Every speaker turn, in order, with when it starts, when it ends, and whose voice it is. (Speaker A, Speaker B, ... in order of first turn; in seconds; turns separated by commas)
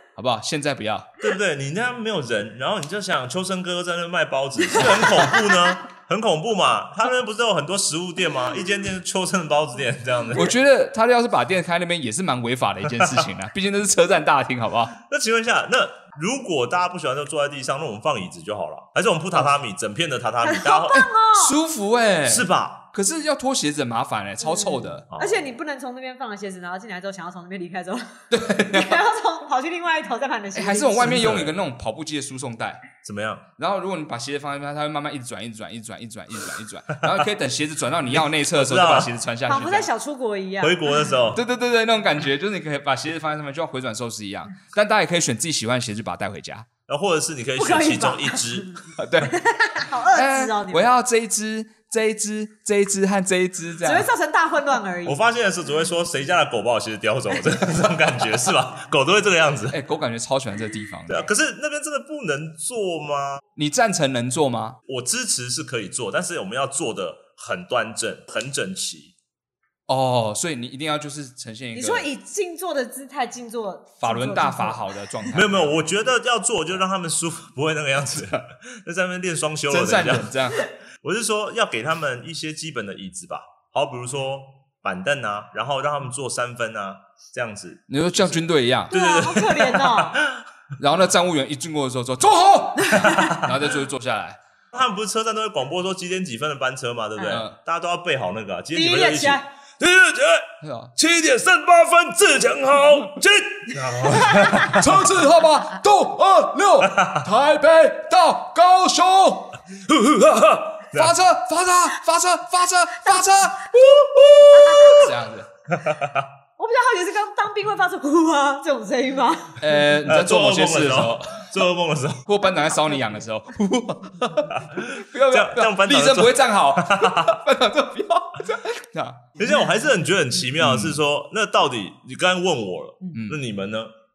Speaker A: 0.1-1.1, Speaker B: 1.2-10.5, Speaker C: 4.8-5.4, Speaker A: 10.3-15.0, Speaker B: 12.9-13.2, Speaker B: 15.0-21.1, Speaker C: 20.4-21.6, Speaker A: 20.9-25.0, Speaker B: 22.2-22.8, Speaker C: 24.4-31.2, Speaker B: 25.1-25.5, Speaker A: 28.3-29.0, Speaker A: 30.5-32.9, Speaker B: 31.0-31.6, Speaker B: 33.0-33.4, Speaker A: 33.6-39.9, Speaker B: 38.1-39.1, Speaker C: 39.5-41.1, Speaker B: 40.6-41.4, Speaker A: 41.3-46.7, Speaker B: 46.9-48.7, Speaker C: 47.6-50.9, Speaker A: 49.0-49.4, Speaker A: 50.1-54.1, Speaker C: 53.8-55.2, Speaker B: 55.0-59.8, Speaker A: 59.7-61.3, Speaker B: 61.1-63.4, Speaker A: 63.5-64.8, Speaker B: 64.8-69.1, Speaker A: 69.9-72.1, Speaker C: 71.7-74.9, Speaker A: 74.0-75.7, Speaker B: 75.3-80.4, Speaker A: 79.7-80.6, Speaker B: 81.0-90.4, Speaker A: 87.9-89.0, Speaker C: 88.9-90.2, Speaker A: 90.8-94.4, Speaker C: 92.9-93.2, Speaker B: 93.0-93.6, Speaker B: 94.7-105.2, Speaker A: 97.3-97.6, Speaker C: 98.7-99.5, Speaker A: 100.6-100.9, Speaker C: 104.0-104.7, Speaker A: 104.3-109.6, Speaker B: 106.8-107.3, Speaker B: 109.8-111.1, Speaker A: 110.9-113.7, Speaker B: 113.7-115.1, Speaker A: 114.3-115.5, Speaker B: 115.7-116.3, Speaker C: 116.6-119.8, Speaker A: 119.6-121.5, Speaker B: 120.0-122.3, Speaker A: 122.2-129.2, Speaker C: 122.7-123.1, Speaker B: 124.5-127.4, Speaker B: 129.4-133.9, Speaker A: 130.6-131.0, Speaker A: 133.1-133.4